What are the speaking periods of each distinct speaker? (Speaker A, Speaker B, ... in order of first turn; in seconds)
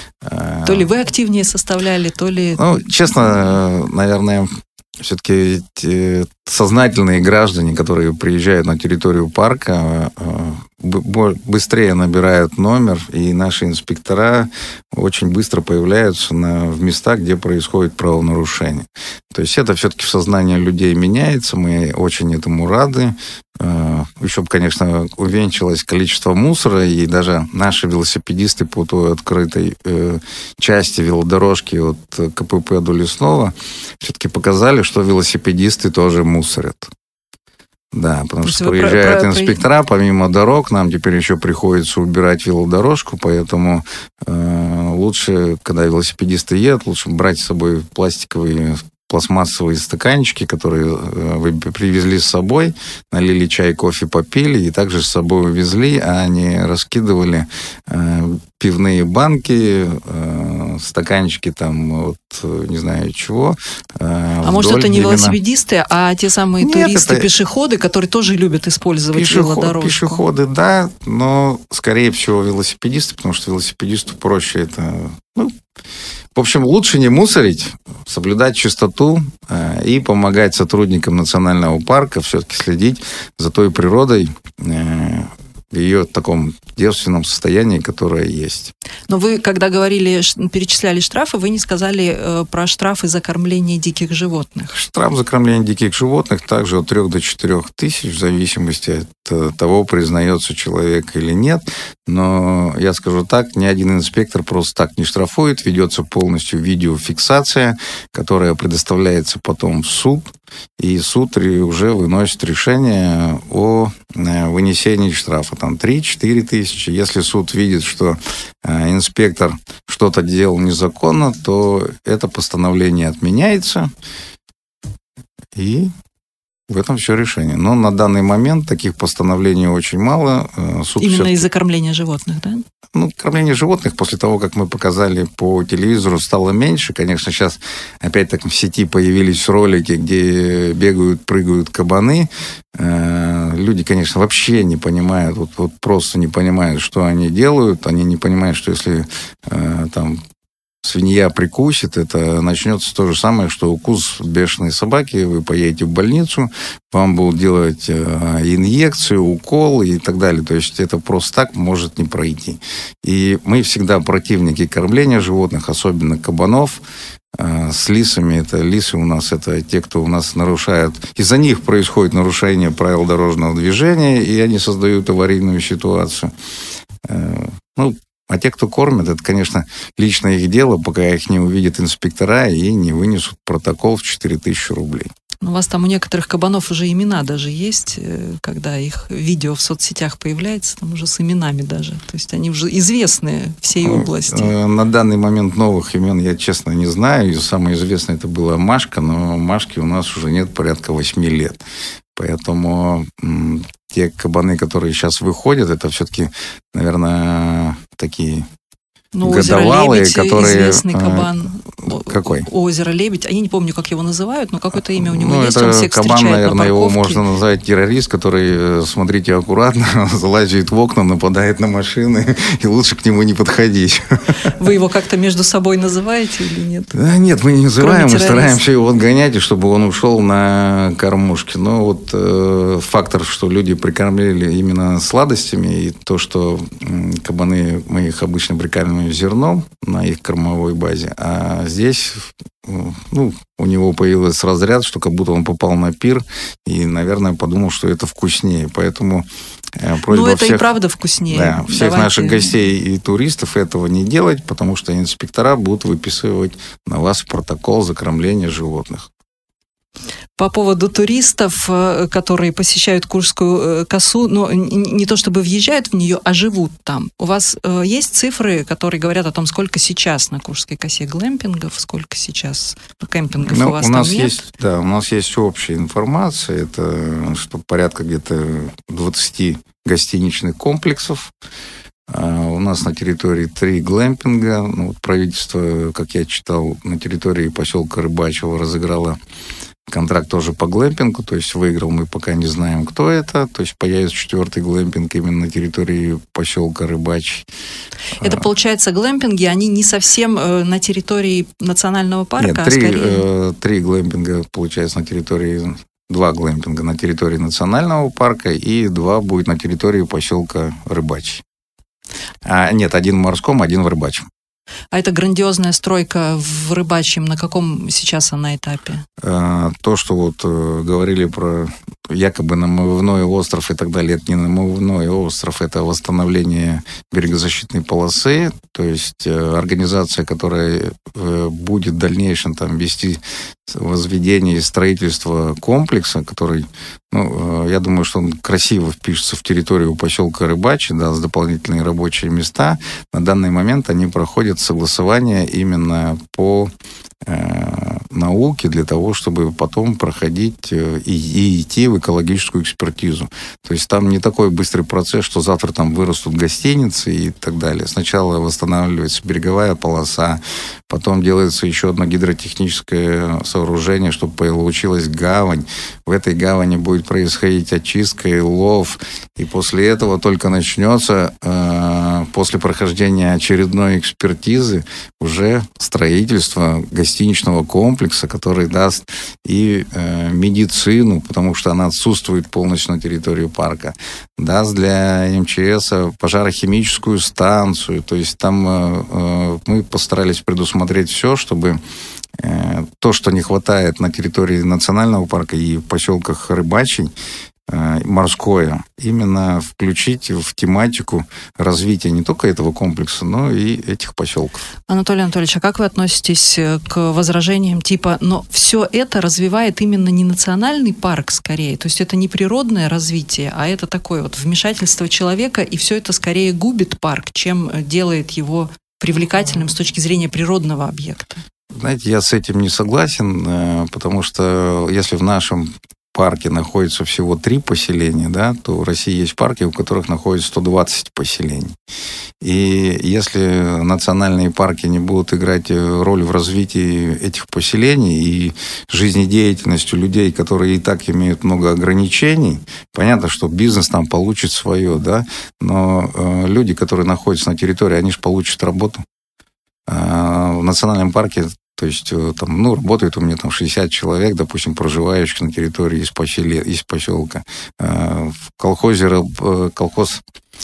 Speaker A: 0.2-0.9, 2.6-36.9, 37.9-65.4, 66.6-67.3, 69.1-75.6, 76.3-88.7, 94.7-123.9, 125.5-125.9, 126.7-131.5, 132.9-150.2, 150.8-176.3, 177.0-185.1, 193.8-201.6, 202.2-208.5, 209.2-212.5, 214.9-224.4, 226.9-250.7, 251.3-259.1, 273.4-281.3, 282.1-289.2, 289.9-297.5, 302.4-311.4, 312.4-314.3, 319.2-346.7, 347.2-391.8, 392.4-397.1, 397.7-404.6, 421.8-431.8, 432.4-449.1, 449.9-460.2
Speaker B: 0.7-2.7, 38.4-39.6, 64.4-70.2, 89.1-94.7, 131.0-132.7, 185.4-194.5, 209.2-217.2, 224.6-226.9, 227.8-228.6, 250.1-252.5, 260.4-274.4, 298.2-303.2, 314.9-319.1, 404.9-421.4